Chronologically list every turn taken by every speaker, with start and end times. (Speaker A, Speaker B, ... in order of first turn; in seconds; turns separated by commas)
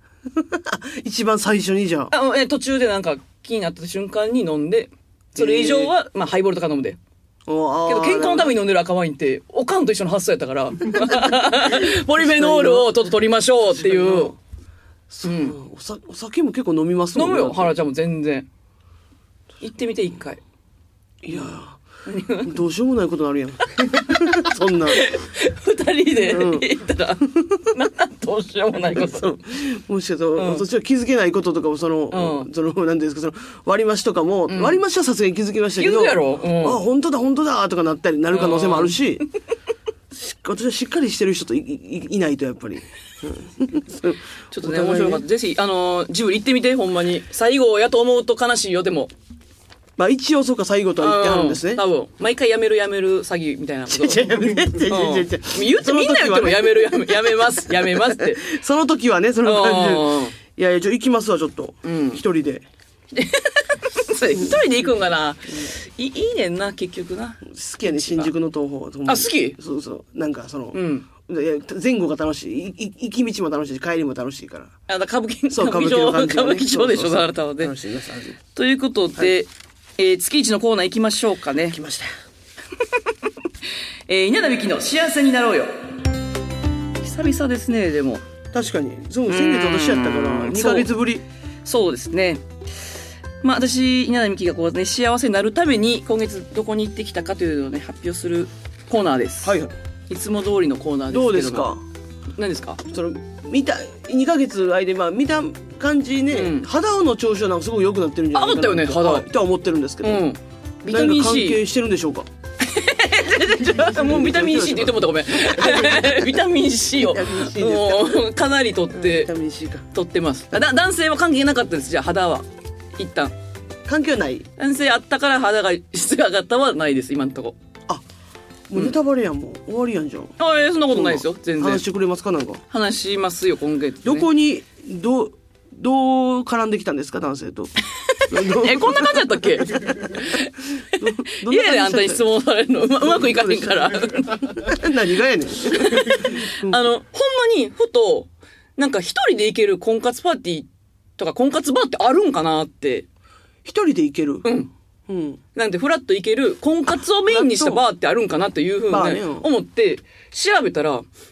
Speaker A: 0.3-2.1, Speaker B: 2.1-7.0, Speaker A: 5.3-5.9, Speaker A: 7.5-8.5, Speaker B: 7.9-14.3, Speaker A: 11.7-12.9, Speaker A: 13.8-14.3, Speaker A: 15.1-17.7, Speaker B: 15.2-15.6, Speaker B: 17.1-18.5, Speaker B: 19.6-20.4, Speaker A: 21.2-21.8, Speaker B: 22.1-22.5, Speaker A: 22.4-25.0, Speaker B: 23.8-24.3, Speaker B: 24.9-29.4, Speaker A: 26.2-26.7, Speaker A: 28.9-39.2, Speaker B: 30.4-30.6, Speaker B: 32.1-32.5, Speaker B: 34.5-34.8, Speaker B: 35.8-36.8, Speaker B: 38.3-39.0, Speaker A: 40.1-45.2, Speaker B: 44.5-49.1, Speaker A: 50.0-51.8, Speaker B: 51.0-58.5, Speaker A: 53.9-62.6, Speaker B: 59.4-60.4, Speaker B: 61.8-62.2, Speaker B: 63.1-68.3, Speaker A: 67.5-74.7, Speaker B: 69.0-69.6, Speaker B: 70.7-71.1, Speaker B: 74.9-77.7, Speaker A: 75.5-78.4, Speaker B: 78.5-81.8, Speaker A: 81.7-82.1, Speaker B: 84.1-85.7, Speaker B: 87.0-88.2, Speaker A: 88.5-91.2, Speaker B: 89.3-90.9, Speaker B: 91.6-92.4, Speaker B: 93.4-99.5, Speaker A: 99.4-99.7, Speaker B: 100.1-101.7, Speaker A: 101.1-101.8, Speaker B: 102.4-102.8, Speaker A: 102.9-110.2, Speaker B: 106.3-106.7, Speaker B: 108.3-109.2, Speaker B: 110.0-111.6, Speaker A: 110.9-112.3, Speaker B: 112.6-119.3, Speaker A: 113.9-116.2, Speaker A: 117.0-118.2, Speaker A: 118.9-119.8, Speaker B: 119.9-123.3, Speaker A: 123.8-124.4, Speaker B: 124.6-127.6, Speaker A: 128.7-130.3, Speaker B: 130.4-131.8, Speaker A: 130.9-132.6, Speaker B: 132.7-134.3, Speaker A: 134.0-137.7, Speaker B: 138.0-144.6, Speaker A: 138.3-140.3, Speaker A: 140.9-142.2, Speaker A: 143.0-146.8, Speaker B: 145.7-150.7, Speaker B: 151.2-153.1, Speaker A: 153.6-154.4, Speaker B: 154.4-154.7, Speaker A: 155.1-155.4, Speaker B: 155.5-161.0, Speaker A: 157.3-157.8, Speaker A: 158.9-159.5